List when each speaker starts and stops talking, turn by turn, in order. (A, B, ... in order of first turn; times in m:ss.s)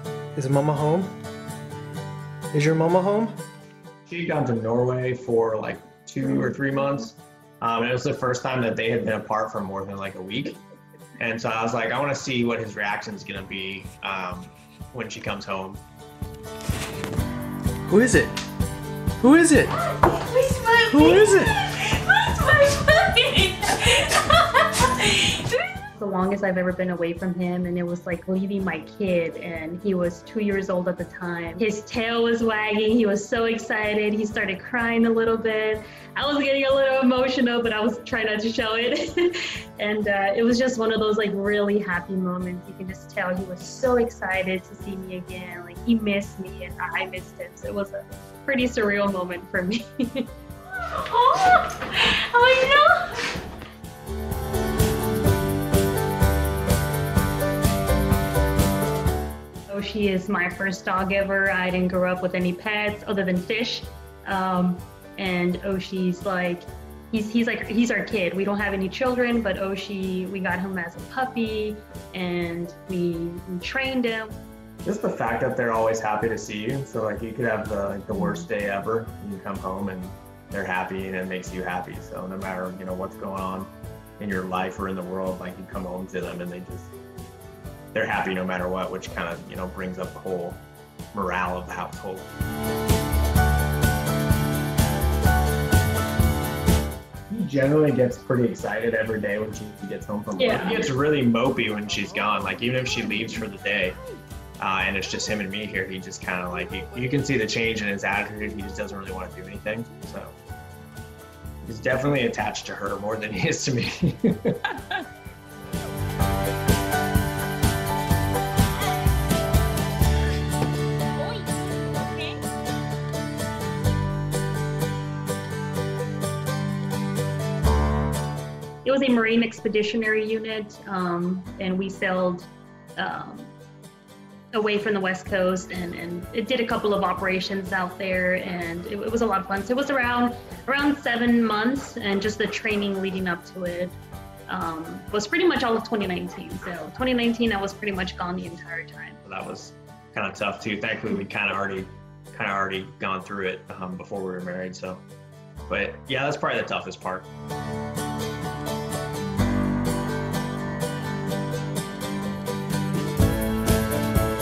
0:00.3-0:01.1 A
0:02.5-0:03.3 A
0:04.0-0:10.6 B
0:11.2-0:15.8 B
0:17.9-0:18.3 A
0:19.2-0:19.7 A
0:19.9-0:53.3 C
0:20.9-0:21.6 A
0:59.7-1:14.4 C
1:14.8-1:26.9 B
1:18.1-1:18.5 C
1:27.9-1:32.3 B
1:37.3-1:44.0 B
1:40.4-1:40.9 C
1:44.6-1:50.4 B
1:51.6-1:54.7 B
2:08.8-2:13.5 C
2:14.5-2:24.0 C
2:24.5-2:29.2 C
2:29.2-2:35.0 B
2:35.7-2:37.3 B